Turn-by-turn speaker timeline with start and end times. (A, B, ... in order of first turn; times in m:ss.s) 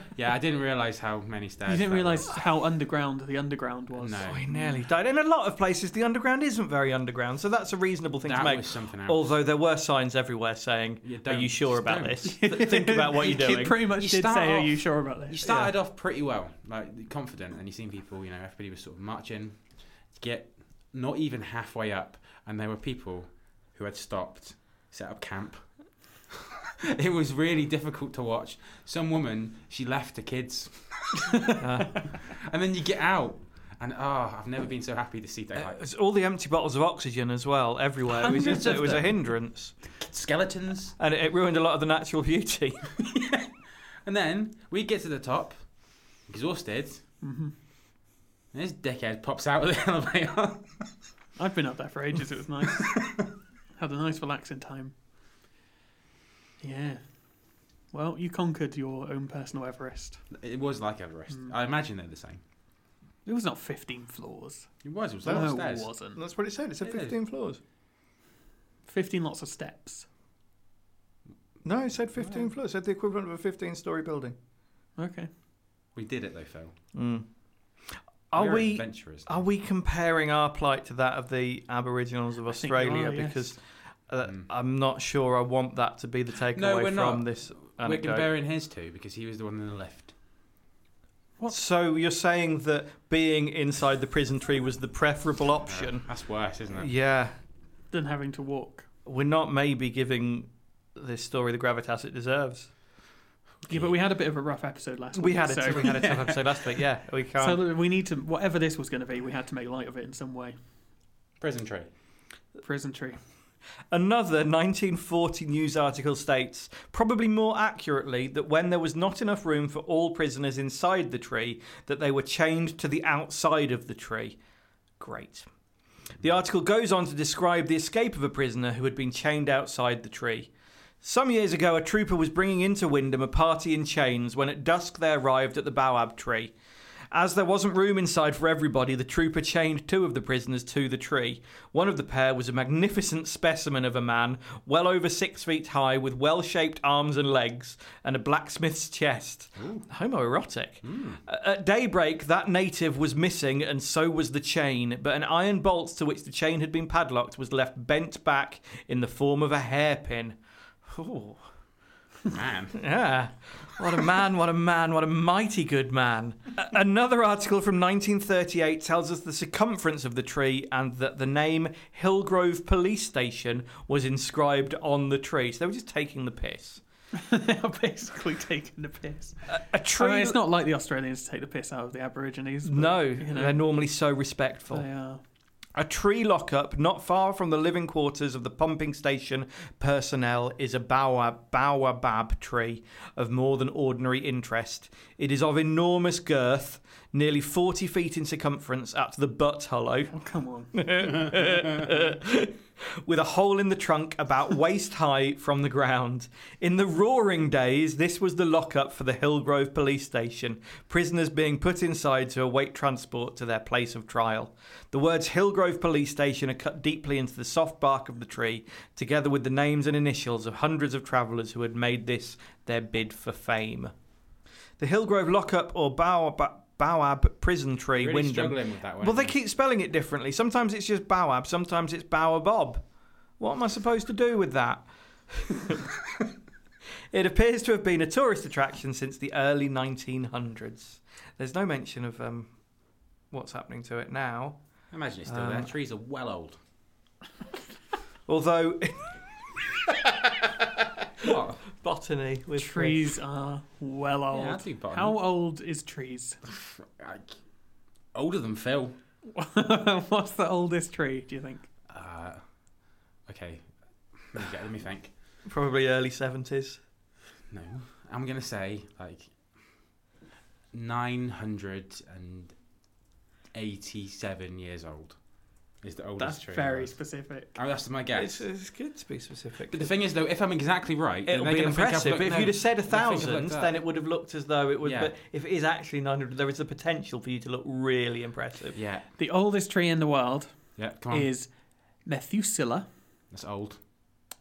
0:00.1-0:02.4 A
0:01.7-0:04.8 B
0:04.0-0:04.4 A
0:04.2-0:13.8 C
0:08.2-0:09.3 A
0:11.0-0:12.4 A
0:12.2-0:15.4 B
0:13.9-0:35.8 A
0:15.4-0:15.7 C
0:31.6-0:32.0 C
0:35.5-0:39.8 C
0:38.2-0:39.2 A
0:38.3-0:39.0 B
0:40.0-0:41.0 A
0:41.0-0:42.9 C
0:43.0-0:43.5 A
0:44.0-0:47.0 A
0:47.2-0:47.5 B
0:48.5-0:50.9 A
0:51.4-0:53.0 B
0:53.8-0:54.9 B
0:56.6-0:57.0 B
0:57.9-1:00.2 B
1:00.3-1:02.4 A
1:03.2-1:04.7 B
1:04.8-1:05.9 A
1:05.2-1:06.2 B
1:06.1-1:07.6 C
1:06.8-1:07.2 A
1:08.9-1:10.1 B
1:11.6-1:14.3 C
1:15.0-1:15.3 B
1:15.9-1:16.7 A
1:16.9-1:17.3 C
1:17.9-1:28.3 C
1:18.3-1:19.4 A
1:22.5-1:23.6 B
1:26.5-1:30.1 A
1:31.5-1:36.1 C
1:35.7-1:36.9 A
1:36.7-1:37.3 C
1:37.9-1:38.9 B
1:39.0-1:42.7 C
1:43.7-1:43.9 A
1:43.7-1:46.0 B
1:45.1-1:47.6 C
1:45.7-1:46.6 A
1:47.4-1:50.6 B
1:51.4-1:51.9 A
1:52.6-1:53.2 B
1:53.9-2:04.4 C
2:05.0-2:05.5 C
2:06.2-2:10.5 C
2:11.0-2:16.5 C
2:17.1-2:41.4 C
2:29.6-2:29.9 A
2:30.8-2:31.2 A
2:42.3-2:42.8 A
2:42.7-2:56.8 C
2:57.1-3:03.6 B
2:59.5-3:00.4 C
3:02.6-3:04.8 C
3:04.7-3:05.2 B
3:05.7-3:20.2 C
3:20.1-3:20.8 B
3:20.7-3:43.9 C
3:44.8-3:52.8 C
3:48.0-3:49.3 A
3:53.4-3:55.8 C
3:57.1-4:02.5 C
4:03.3-4:04.6 C
4:04.9-4:06.6 A
4:05.3-4:05.7 C
4:08.3-4:09.1 C
4:11.2-4:11.6 A
4:11.2-4:13.1 C
4:12.6-4:16.4 B
4:14.3-4:15.2 A
4:16.4-4:17.3 A
4:18.1-4:19.0 A
4:19.3-4:21.7 B
4:21.9-4:22.4 A
4:23.2-4:25.1 A
4:25.4-4:26.8 C
4:27.5-4:29.6 A
4:30.7-4:32.6 A
4:33.5-4:35.2 A
4:35.8-4:38.4 A
4:36.2-4:37.5 B
4:38.1-4:39.9 C
4:39.7-4:43.8 A
4:41.3-4:48.8 C
4:44.8-4:45.1 A
4:48.8-4:49.0 A
4:49.2-4:50.6 B
4:50.8-4:51.3 A
4:51.1-4:51.5 B
4:52.0-4:52.9 B
4:53.3-4:53.8 A